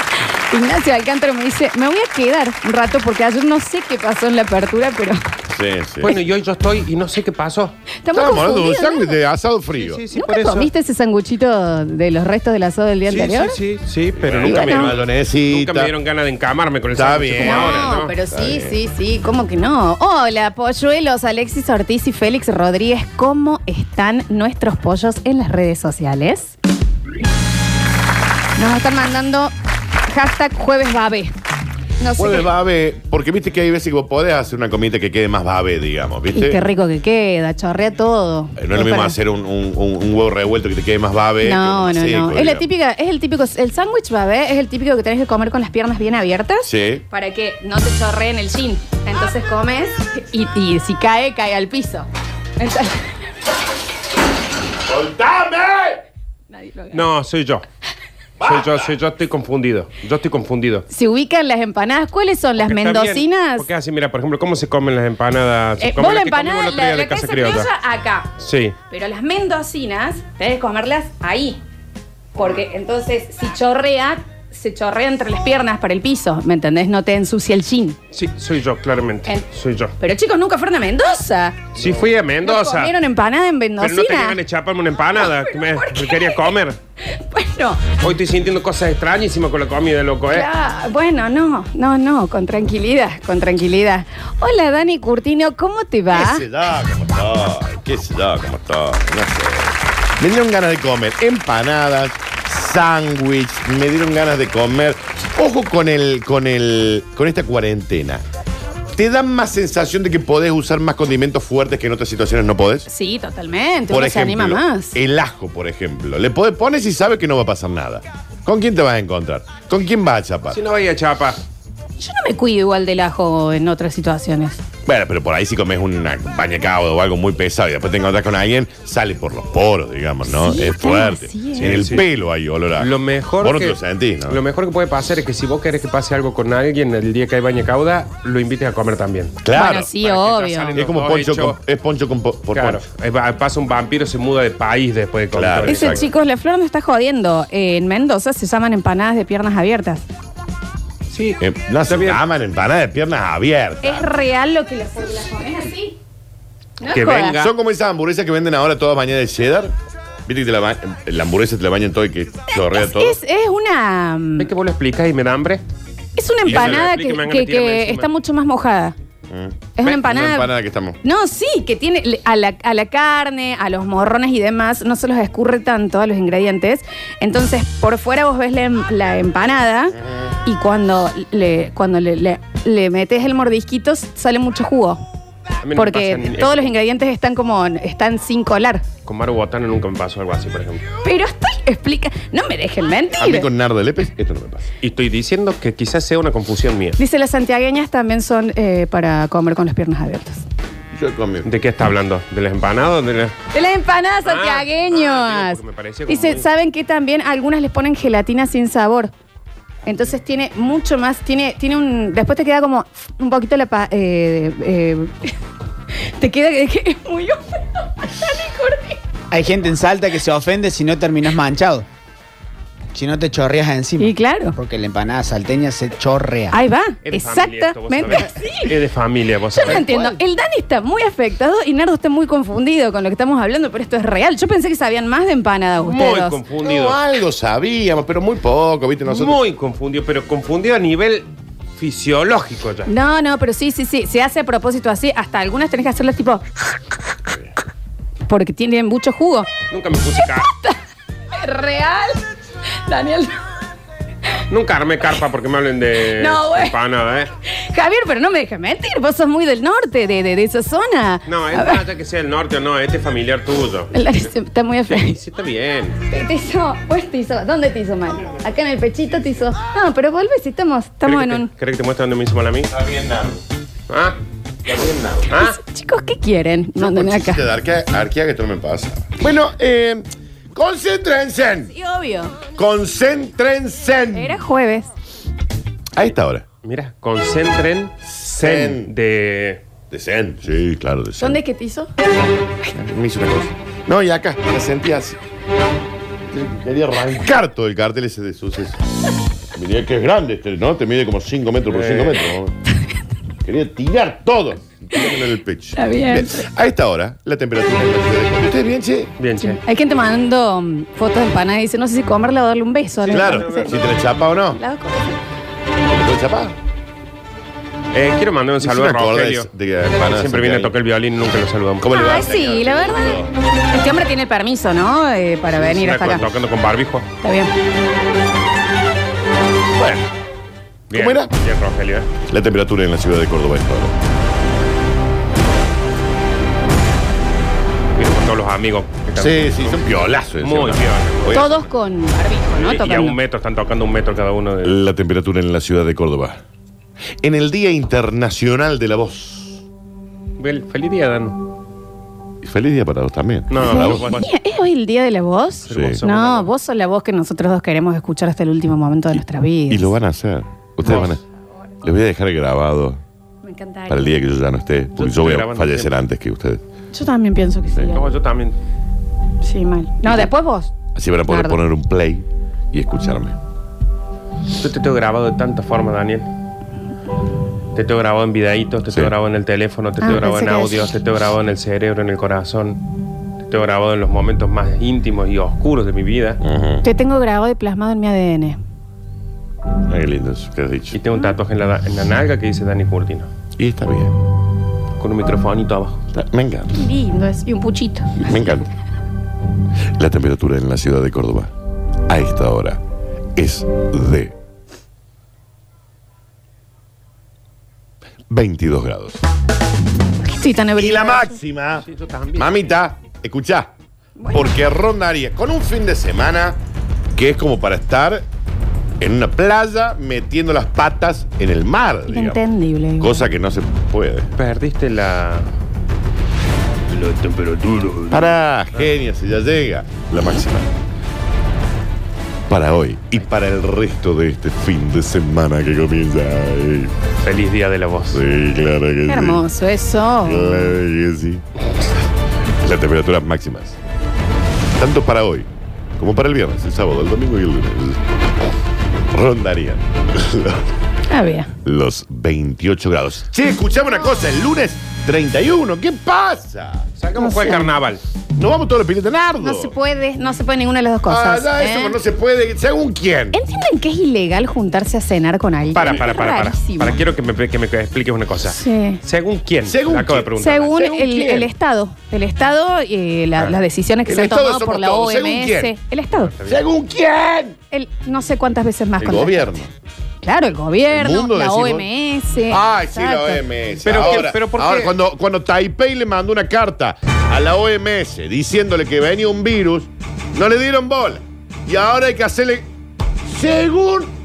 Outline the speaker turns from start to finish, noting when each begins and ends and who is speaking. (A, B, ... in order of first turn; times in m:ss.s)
0:00.2-0:05.2 A
0:05.5-0:06.2 B
0:06.0-0:07.8 C
0:08.0-0:09.2 A
0:08.1-0:10.0 B
0:09.7-0:10.7 C
0:10.1-0:13.6 A
0:13.1-0:18.1 C
0:14.2-0:15.9 B
0:14.4-0:15.0 A
0:16.9-0:18.8 B
0:17.4-0:26.6 A
0:28.6-0:29.5 A
0:30.1-0:31.4 A
0:32.0-0:32.5 A
0:32.2-0:36.6 B
0:36.3-0:39.2 A
0:38.6-0:42.7 B
0:41.4-0:53.2 A
0:46.6-0:47.0 B
0:54.9-0:56.0 B
0:56.5-0:57.0 A
0:56.9-0:57.6 C
0:58.4-0:58.9 B
0:58.4-1:00.9 C
1:00.9-1:03.7 A
1:02.6-1:07.7 C
1:05.8-1:08.4 A
1:08.4-1:08.8 C
1:08.9-1:11.6 A
1:12.3-1:18.0 A
1:18.1-1:19.9 C
1:20.0-1:21.7 A
1:21.8-1:22.9 C
1:22.4-1:24.4 A
1:23.8-1:26.8 C
1:25.2-1:27.8 A
1:28.0-1:30.5 C
1:30.3-1:36.5 A
1:36.1-1:48.2 B
1:49.0-1:52.9 B
1:52.9-1:55.0 A
1:53.9-2:00.6 B
2:00.5-2:01.4 C
2:02.0-2:04.6 A
2:04.9-2:14.4 B
2:10.2-2:11.8 A
2:11.6-2:12.1 C
2:12.8-2:19.4 C
2:19.4-2:19.9 B
2:19.5-2:20.8 A
2:20.0-2:21.6 C
2:20.8-2:22.8 B
2:22.5-2:26.1 C
2:25.3-2:26.0 B
2:25.6-2:30.1 A
2:31.1-2:32.2 C
2:31.4-2:34.1 B
2:33.8-2:36.0 A
2:36.8-2:37.4 A
2:36.9-2:37.5 C
2:37.3-2:39.7 B
2:40.3-2:43.2 B
2:42.5-2:44.5 A
2:44.4-2:45.6 C
2:46.2-2:49.0 A
2:46.4-2:48.1 C
2:46.5-2:46.8 B
2:49.3-2:51.0 B
2:49.8-3:05.0 A
3:05.6-3:06.7 C
3:05.7-3:08.9 A
3:09.0-3:10.8 C
3:11.0-3:13.5 A
3:13.1-3:14.7 B
3:14.8-3:17.0 C
3:17.0-3:20.4 A
3:20.9-3:21.5 B
3:21.4-3:23.4 C
3:23.5-3:29.1 A
3:24.2-3:26.5 C
3:29.8-3:35.4 A
3:35.9-3:39.0 A
3:39.3-3:41.9 D
3:42.9-3:46.6 D
3:44.0-3:44.6 A
3:46.5-3:48.8 A
3:47.0-3:49.9 C
3:49.6-3:56.4 A
3:49.8-3:50.2 D
3:55.8-3:57.0 C
3:56.6-3:59.4 B
3:59.1-4:02.9 C
4:02.9-4:06.5 A
4:08.3-4:09.5 A
4:09.7-4:10.5 C
4:10.3-4:10.8 A
4:11.3-4:12.2 A
4:12.8-4:13.4 A
4:14.5-4:17.3 C
4:16.1-4:16.8 A
4:17.4-4:21.8 A
4:21.3-4:23.9 C
4:23.9-4:25.2 A
4:24.9-4:26.0 C
4:26.1-4:31.5 A
4:31.0-4:32.7 C
4:32.7-4:33.4 B
4:33.9-4:34.2 C
4:34.6-4:35.3 B
4:35.3-4:35.6 C
4:35.3-4:37.5 A
4:36.8-4:41.8 B
4:41.7-4:42.5 A
4:42.5-4:44.4 B
4:44.1-4:44.9 A
4:45.9-4:46.4 B
4:46.6-4:49.6 C
4:48.1-4:48.9 B
4:49.9-4:51.4 B
4:51.2-4:51.9 A
4:52.7-4:55.2 B
4:56.3-4:58.8 B
4:59.5-5:02.6 B
5:01.7-5:02.2 C
5:03.4-5:09.1 B
5:05.8-5:06.5 A
5:09.2-5:09.6 C
5:09.4-5:13.9 A
5:13.1-5:14.6 B
5:13.1-5:13.8 C
5:14.6-5:15.2 A
5:15.8-5:16.6 B
5:17.9-5:21.9 C
5:18.6-5:20.7 B
5:21.8-5:23.3 B
5:21.9-5:26.3 A
5:25.5-5:27.1 C
5:27.2-5:27.5 A
5:30.9-5:32.1 C
5:30.9-5:31.3 B
5:32.3-5:34.0 B
5:38.0-5:41.6 C
5:39.2-5:41.6 B
5:41.3-5:43.2 A
5:42.5-5:44.8 C
5:44.6-5:46.4 B
5:47.2-5:49.6 B
5:50.4-5:51.4 C
5:52.4-5:54.1 B
5:53.5-5:54.3 C
5:53.6-6:00.0 A
5:55.7-5:56.5 C
5:55.7-5:56.0 B
5:59.1-6:01.2 B
6:00.8-6:01.1 C
6:01.8-6:03.0 B
6:03.4-6:04.2 A
6:03.9-6:06.6 B
6:05.0-6:05.9 C
6:06.9-6:08.1 A
6:07.9-6:08.6 C
6:09.4-6:10.7 A
6:11.0-6:13.4 B
6:11.3-6:11.6 A
6:14.6-6:16.3 C
6:17.7-6:22.8 C
6:20.0-6:20.9 A
6:23.5-6:26.4 C
6:26.4-6:26.9 B
6:26.8-6:28.6 A
6:29.9-6:31.0 B
6:30.9-6:33.3 C
6:33.6-6:34.2 B
6:35.0-6:36.0 C
6:36.1-6:36.7 B
6:36.7-6:38.4 A
6:38.2-6:38.7 B
6:40.0-6:41.5 B
6:42.1-6:42.8 B
6:43.4-6:44.4 B
6:48.3-6:49.2 B
6:50.2-6:51.4 A
6:50.8-6:53.7 B
6:51.8-6:52.6 C
6:54.2-6:54.6 A
6:54.3-6:56.6 B
6:57.2-6:58.2 B
6:59.0-7:02.4 B
7:02.1-7:03.3 A
7:03.0-7:04.3 B
7:04.4-7:05.5 C
7:06.9-7:08.3 C
7:08.1-7:10.7 B
7:12.5-7:16.9 B
7:17.2-7:18.2 C
7:18.1-7:19.5 B
7:19.1-7:20.8 A
7:20.2-7:21.4 B
7:22.5-7:23.8 B
7:24.7-7:28.0 B
7:29.1-7:30.7 B
7:31.1-7:31.5 A
7:31.6-7:36.9 B
7:37.0-7:38.0 C
7:37.2-7:37.7 A
7:38.4-7:39.7 B
7:39.4-7:42.0 A
7:41.1-7:43.4 B
7:43.3-7:47.0 A
7:45.7-7:50.7 C
7:48.4-7:49.0 A
7:49.6-7:51.5 B
7:50.4-7:56.3 A
7:54.1-7:55.7 B
7:56.2-7:56.6 C
7:56.5-7:57.6 B
7:57.7-7:59.6 A
7:59.0-7:59.7 B
8:00.2-8:03.4 A
8:00.9-8:01.9 B
8:02.5-8:12.7 B
8:03.8-8:05.0 C
8:13.3-8:14.1 B